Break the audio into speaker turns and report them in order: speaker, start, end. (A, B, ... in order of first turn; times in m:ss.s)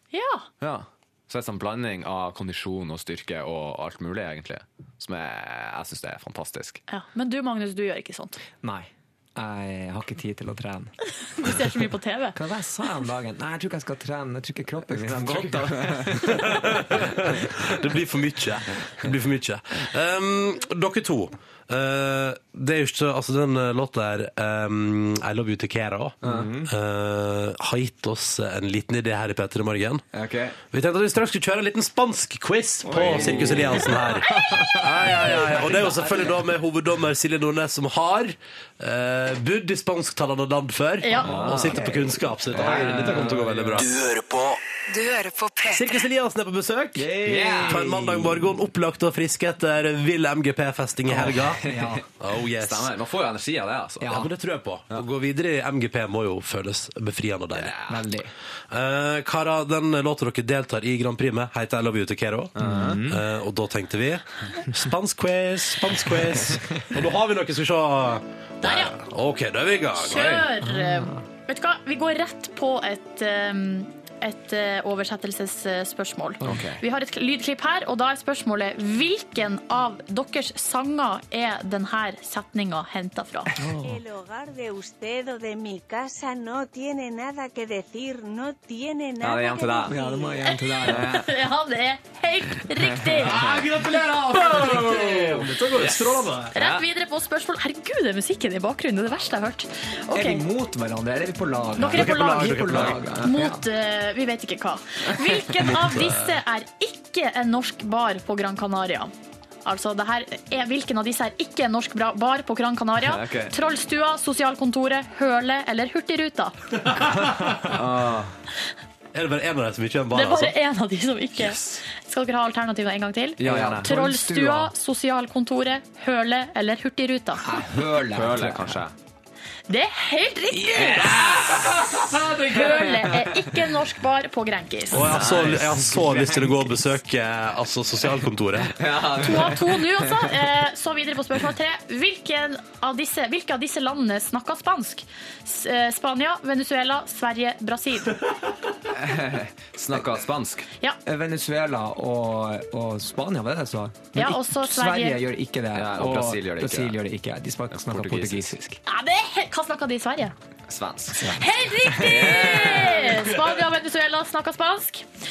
0:00.1-0:00.5 A
0:00.6-0:06.8 B
0:06.9-0:08.4 A
0:08.6-0:11.7 C
0:11.4-0:12.4 A
0:12.4-0:17.4 C
0:14.8-0:16.4 B
0:16.6-0:26.2 D
0:26.2-0:26.6 B
0:26.2-0:26.7 C
0:26.7-0:30.0 D
0:30.1-0:30.6 B
0:30.7-0:43.9 D
0:32.9-0:33.8 B
0:33.0-0:36.3 C
0:41.0-0:41.3 A
0:41.2-0:41.9 B
0:41.3-0:43.8 C
0:42.5-0:43.6 B
0:44.0-0:46.0 E
0:45.7-0:47.1 D
0:47.0-0:48.5 C
0:47.2-0:48.1 B
0:47.7-0:51.6 D
0:51.1-0:52.0 C
0:51.6-0:52.0 B
0:52.2-0:52.9 D
0:52.6-0:54.2 B
0:54.0-0:54.3 C
0:54.1-0:57.8 D
0:57.6-0:58.0 B
0:57.8-0:58.3 C
0:58.7-1:10.4 D
1:02.6-1:03.1 B
1:02.6-1:03.2 C
1:08.6-1:09.0 A
1:10.0-1:23.5 A
1:10.2-1:10.4 B
1:10.6-1:11.2 C
1:16.4-1:16.8 B
1:23.6-1:24.0 C
1:23.8-1:29.9 F
1:29.2-1:30.0 B
1:29.9-1:31.2 C
1:29.9-1:33.5 A
1:30.9-1:31.3 B
1:33.1-1:33.7 B
1:33.2-1:36.6 D
1:34.5-1:36.8 B
1:36.5-1:40.5 A
1:40.1-1:43.6 C
1:41.8-1:49.1 A
1:41.8-1:43.0 D
1:42.9-1:43.3 B
1:45.6-1:46.4 D
1:49.6-1:56.6 A
1:53.0-1:53.6 B
1:56.9-1:57.6 D
1:57.6-1:58.3 B
1:59.1-2:00.6 D
2:00.1-2:07.5 A
2:03.4-2:04.0 B
2:03.4-2:04.7 C
2:07.4-2:08.8 C
2:08.1-2:08.9 B
2:09.7-2:11.4 A
2:10.6-2:12.4 C
2:10.8-2:11.7 B
2:12.4-2:15.1 A
2:14.9-2:18.8 D
2:15.0-2:16.0 B
2:16.0-2:16.5 C
2:18.7-2:20.3 B
2:19.2-2:28.2 A
2:28.9-2:30.7 B
2:31.0-2:38.8 C
2:34.2-2:35.2 A
2:35.7-2:37.0 B
2:37.7-2:38.6 B
2:38.8-2:40.3 A
2:40.7-2:41.3 B
2:41.2-2:42.5 C
2:41.3-2:45.1 A
2:42.0-2:43.0 B